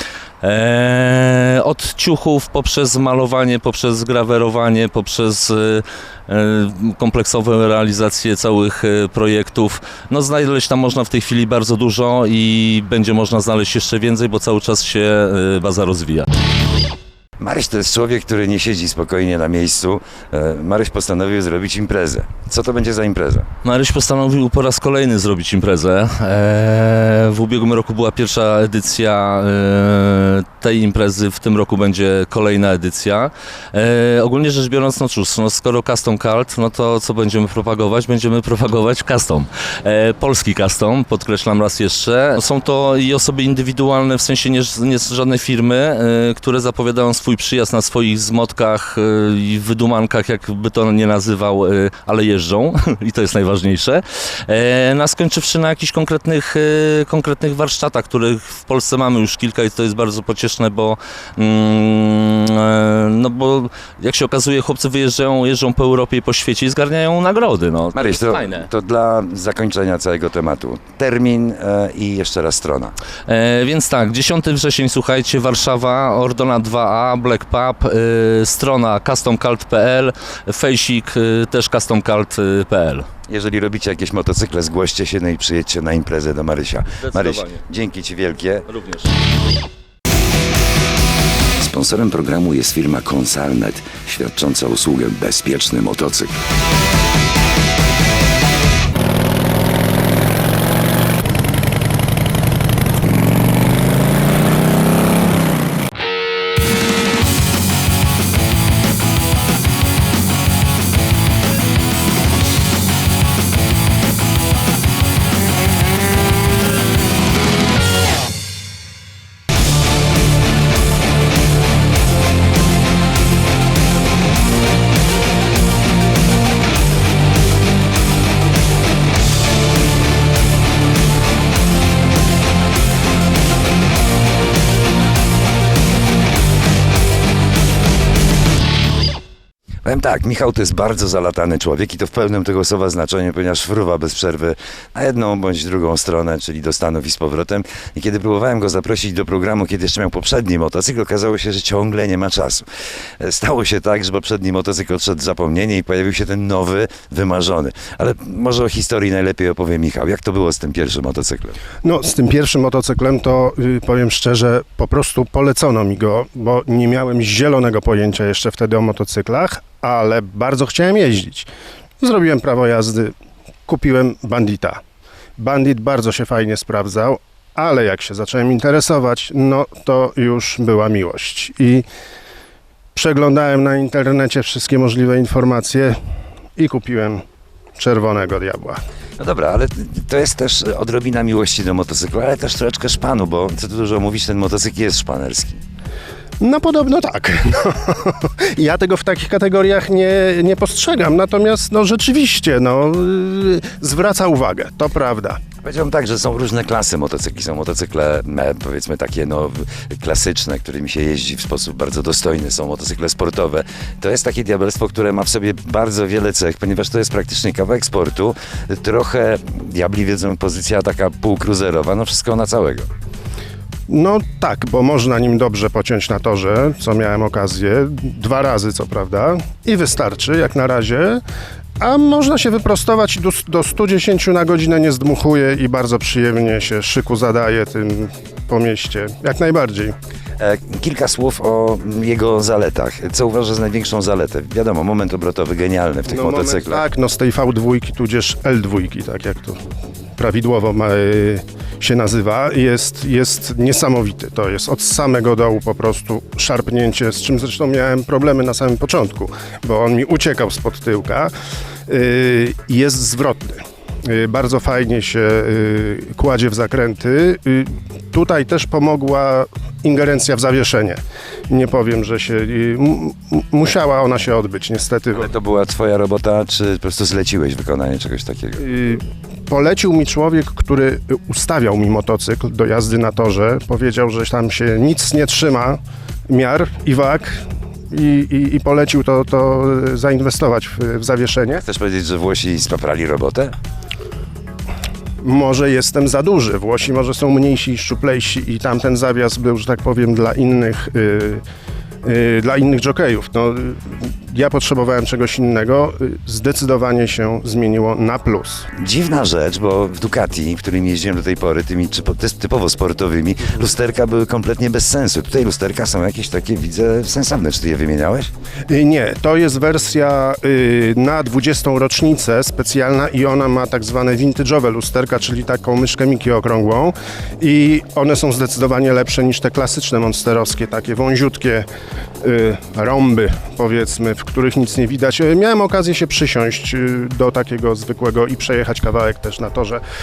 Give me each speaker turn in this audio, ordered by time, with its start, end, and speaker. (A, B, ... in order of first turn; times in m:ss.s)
0:00.4-0:16.3 A
0:17.4-0:23.5 B
0:23.6-1:08.7 A
1:08.0-1:13.0 B
1:13.3-1:23.1 A
1:23.3-1:28.7 B
1:27.0-1:27.6 A
1:28.7-1:29.1 A
1:31.6-1:36.4 B
2:19.8-2:32.6 B
2:33.2-2:41.6 B
2:41.8-2:51.5 C
2:52.0-2:53.2 C
2:53.7-2:54.8 C
2:55.4-3:01.9 C
3:03.0-3:06.0 C
3:06.6-3:07.2 C
3:07.8-3:08.8 C
3:09.2-3:15.6 B
3:16.4-3:25.4 C
3:25.6-3:42.9 B
3:43.9-3:51.2 C
3:51.8-3:59.9 C
4:00.4-4:06.8 B
4:06.1-4:09.6 C
4:10.2-4:21.3 C
4:21.9-4:35.3 C
4:35.1-4:38.6 B
4:38.6-4:51.6 C
4:51.5-4:53.5 B
4:55.2-5:01.4 C
5:02.0-5:08.7 C
5:08.7-5:18.3 B
5:18.7-5:31.7 C
5:32.2-5:39.8 C